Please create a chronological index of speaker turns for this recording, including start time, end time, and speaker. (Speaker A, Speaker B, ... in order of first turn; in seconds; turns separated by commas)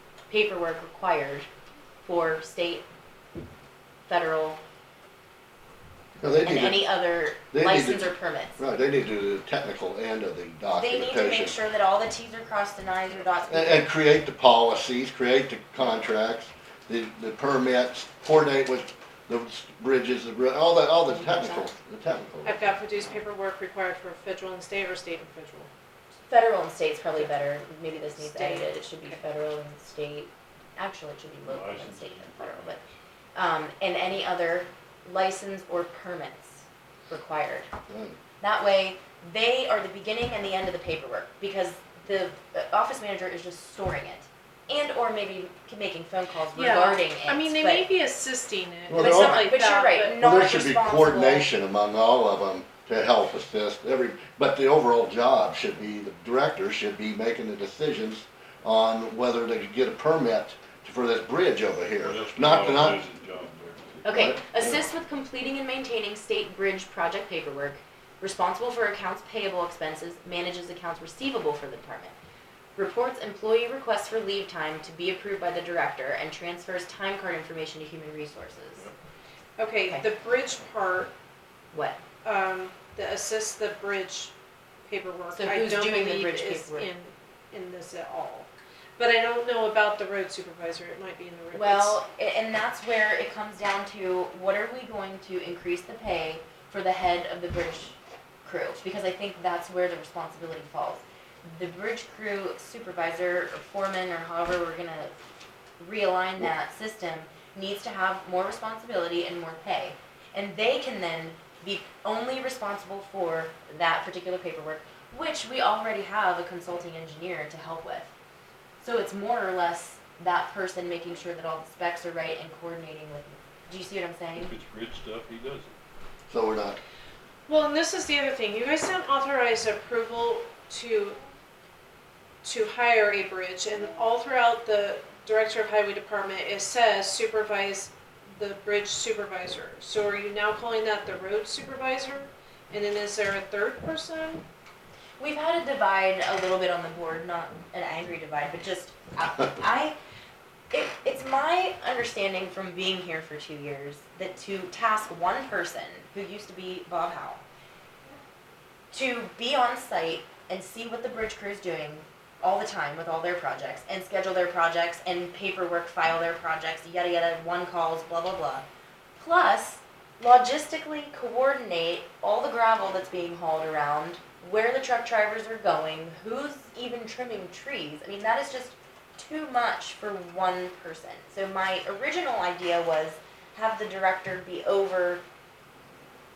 Speaker A: 0.3-1.5, Speaker A: 2.0-2.9, Speaker A: 4.1-4.6, Speaker B: 6.2-6.8, Speaker A: 6.4-8.6, Speaker B: 7.5-11.6, Speaker A: 10.7-13.9, Speaker B: 13.5-22.7, Speaker A: 21.1-21.7, Speaker C: 22.4-25.7, Speaker A: 26.3-32.8, Speaker C: 28.2-29.2, Speaker D: 31.4-32.9, Speaker A: 33.3-37.7, Speaker B: 37.9-38.2, Speaker A: 38.4-47.9, Speaker C: 46.5-50.2, Speaker B: 48.9-49.5, Speaker A: 49.0-51.5, Speaker B: 50.2-63.0, Speaker D: 62.0-64.0, Speaker B: 64.0-64.8, Speaker A: 64.0-72.1, Speaker A: 72.8-78.9, Speaker C: 79.6-81.1, Speaker A: 81.7-82.0, Speaker C: 82.2-84.3, Speaker C: 84.9-92.0, Speaker A: 85.3-86.9, Speaker A: 91.5-105.2, Speaker A: 105.8-118.1, Speaker A: 118.8-124.5, Speaker D: 124.4-125.8, Speaker B: 126.3-126.8, Speaker C: 127.5-131.2, Speaker C: 132.4-144.4, Speaker A: 145.2-149.9, Speaker A: 150.7-157.4, Speaker A: 158.9-168.7, Speaker A: 169.2-185.2